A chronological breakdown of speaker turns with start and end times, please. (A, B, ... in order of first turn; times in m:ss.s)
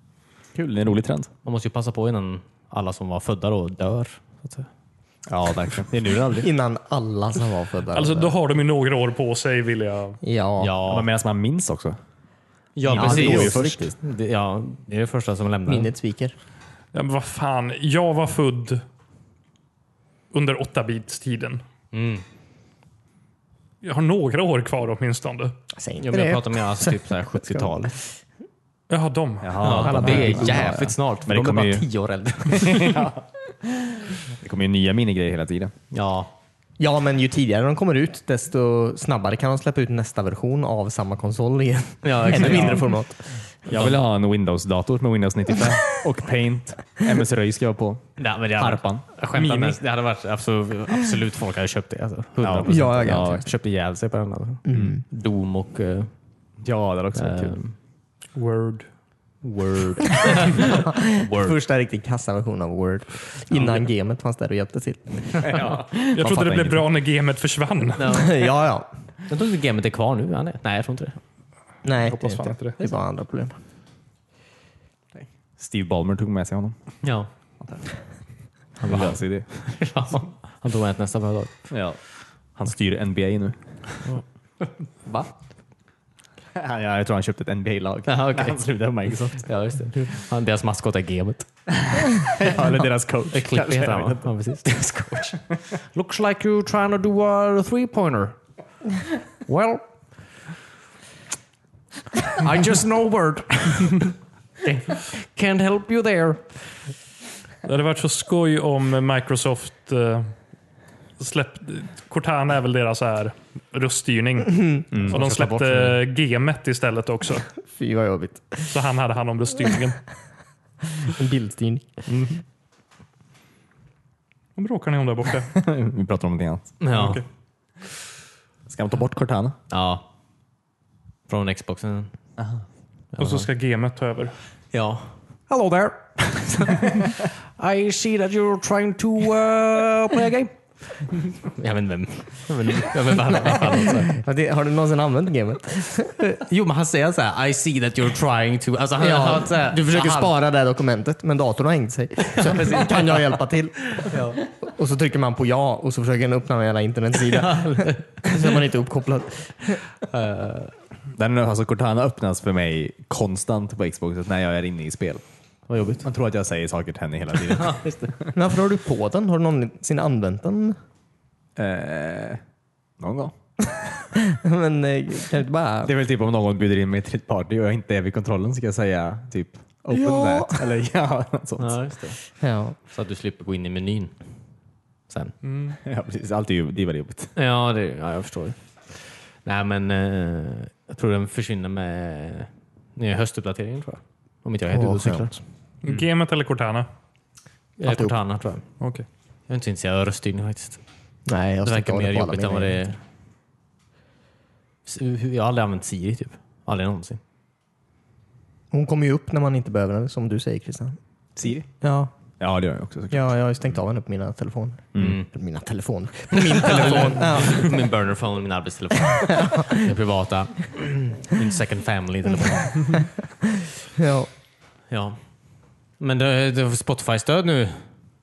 0:00.5-0:01.3 A
0:01.4-0:04.7 B
0:05.3-0:06.5 A
0:06.4-0:08.3 C
0:07.9-0:10.2 D
0:10.2-0:10.7 C
0:10.6-0:11.1 B
0:10.8-0:12.0 A
0:12.8-0:15.9 B
0:12.9-0:13.9 A
0:12.9-0:13.9 C
0:15.7-0:16.3 C
0:16.9-0:18.8 D
0:20.3-0:21.6 D
0:21.9-0:22.2 B
0:23.8-0:25.6 D
0:25.7-0:27.9 C
0:26.0-0:28.0 B
0:28.9-0:30.1 D
0:29.4-0:31.8 A
0:29.6-0:32.9 B
0:30.0-0:30.7 C
0:32.4-0:35.7 A
0:35.9-0:36.3 B
0:36.8-0:43.2 C
0:42.0-0:42.9 B
0:43.7-0:49.0 A
0:43.7-0:44.0 B
0:48.2-0:56.1 B
0:49.3-0:49.8 D
0:52.4-0:53.4 A
0:52.6-0:53.5 C
0:54.6-0:55.0 C
0:54.7-0:55.0 A
0:56.6-0:57.6 A
0:57.1-0:57.7 B
0:58.3-0:58.9 D
0:59.4-1:01.6 B
1:00.7-1:06.4 C
1:05.4-1:06.8 A
1:05.4-1:05.8 B
1:06.1-1:08.3 D
1:08.0-1:08.5 B
1:08.1-1:08.9 C
1:09.3-1:11.2 B
1:11.8-1:13.6 C
1:12.0-1:12.8 D
1:15.2-1:16.7 A
1:17.0-1:17.3 B
1:18.8-1:21.5 B
1:18.8-1:19.5 A
1:21.7-1:22.0 A
1:22.5-1:23.6 A
1:26.5-1:29.5 A
1:28.0-1:28.6 B
1:29.2-1:31.5 B
1:31.8-1:34.3 A
1:33.3-1:38.4 B
1:39.4-1:39.8 B
1:42.4-1:46.7 B
1:47.6-1:50.3 D
1:51.2-1:57.5 D
1:55.1-1:56.0 B
1:57.6-1:58.7 C
1:58.7-2:00.0 D
2:01.0-2:02.0 C
2:02.1-2:02.4 D
2:04.6-2:05.6 D
2:05.5-2:06.8 A
2:06.8-2:07.2 B
2:06.9-2:07.2 D
2:08.7-2:09.6 A
2:09.7-2:10.0 B
2:11.3-2:12.1 B
2:13.1-2:13.5 B
2:13.2-2:14.3 D
2:14.7-2:24.1 B
2:24.0-2:26.4 C
2:26.4-2:30.3 B
2:29.0-2:39.8 C
2:32.3-2:33.2 B
2:34.0-2:34.4 B
2:37.2-2:38.5 B
2:40.0-2:40.7 B
2:41.2-2:45.2 A
2:45.7-2:46.0 B
2:46.0-2:47.8 A
2:47.5-2:48.2 B
2:48.3-2:50.8 C
2:51.6-2:52.4 A
2:53.0-2:53.3 A
2:54.1-2:55.9 C
2:55.8-3:01.8 A
2:59.9-3:00.7 C
3:01.6-3:02.2 B
3:02.4-3:02.8 C
3:02.9-3:04.1 B
3:05.1-3:05.3 B
3:05.4-3:05.8 D
3:05.8-3:07.3 A
3:07.4-3:15.3 B
3:14.7-3:15.4 C
3:15.8-3:16.9 D
3:17.8-3:18.6 B
3:17.8-3:18.1 C
3:18.8-3:19.0 D
3:19.5-3:20.8 B
3:21.3-3:22.9 C
3:21.6-3:23.0 B
3:24.8-3:27.2 B
3:28.7-3:31.0 C
3:31.4-3:31.7 A
3:31.8-3:32.1 C
3:32.4-3:33.2 A
3:33.1-3:37.8 C
3:35.0-3:35.3 B
3:36.3-3:43.0 B
3:39.2-3:39.8 C
3:43.9-3:44.3 C
3:44.9-3:45.2 B
3:46.0-3:47.8 B